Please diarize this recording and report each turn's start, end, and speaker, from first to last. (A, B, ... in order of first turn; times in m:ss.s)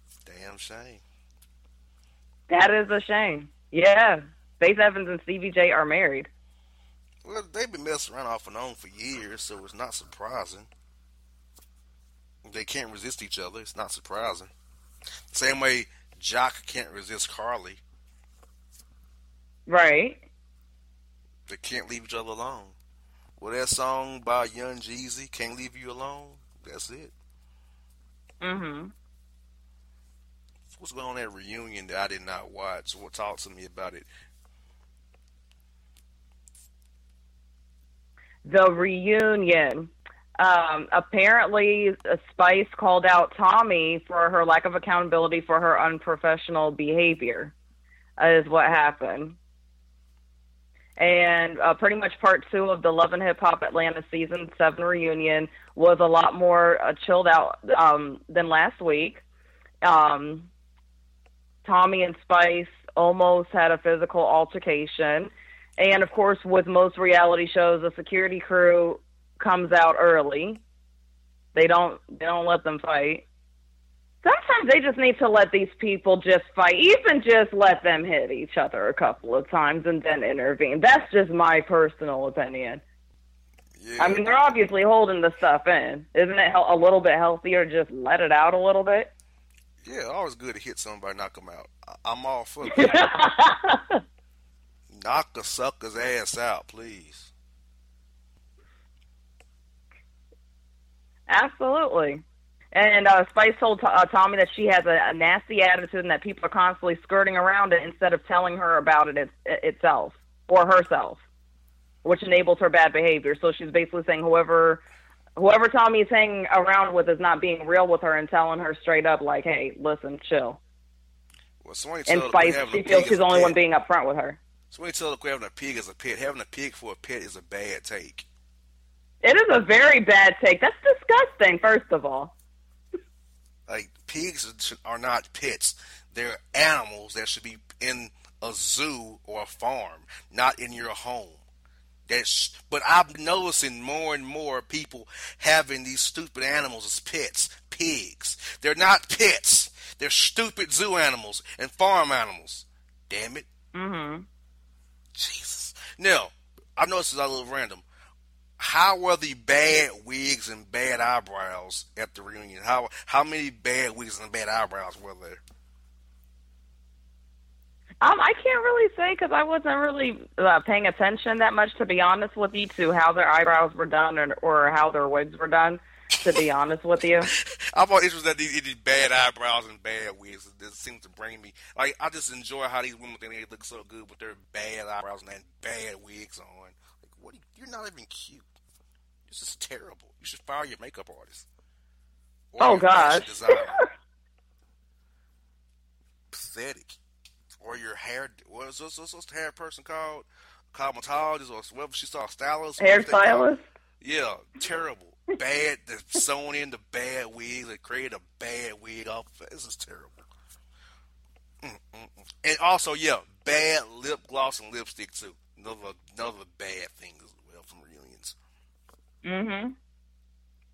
0:00.3-0:01.0 A
0:02.5-0:06.3 B
0:07.2-0:10.7 A
0:12.4-0:14.5 A
0:15.3-0:17.8 A
0:19.7-0:20.2 B
0:21.5-0:22.8 A
0:23.4-0:27.1 A
0:28.4-0:28.9 B
0:30.7-0:34.1 A
0:38.4-0:47.5 B
0:48.2-0:49.4 B
0:51.0-0:59.2 B
0:59.8-1:00.5 B
1:01.6-1:10.6 B
1:11.6-1:13.2 B
1:14.2-1:22.8 B
1:23.8-1:24.2 A
1:24.0-1:29.1 B
1:29.8-1:33.1 A
1:32.7-1:34.0 B
1:34.9-1:37.3 A
1:41.3-1:42.2 B
1:42.7-1:51.2 B
1:52.0-1:54.8 B
1:55.4-2:00.6 B
2:01.6-2:03.6 A
2:02.1-2:04.4 B
2:04.7-2:08.2 A
2:09.2-2:12.3 B
2:13.7-2:21.4 A
2:22.1-2:33.5 A
2:33.7-2:34.3 B
2:35.2-2:37.8 A
2:38.6-2:45.4 A
2:48.0-2:57.3 B
2:57.3-3:08.4 A
3:09.3-3:11.5 A
3:12.5-3:13.8 A
3:12.6-3:13.9 B
3:16.3-3:17.0 A
3:17.6-3:23.5 A
3:22.8-3:23.6 B
3:24.0-3:30.2 A
3:31.6-3:38.4 A
3:39.2-3:39.8 B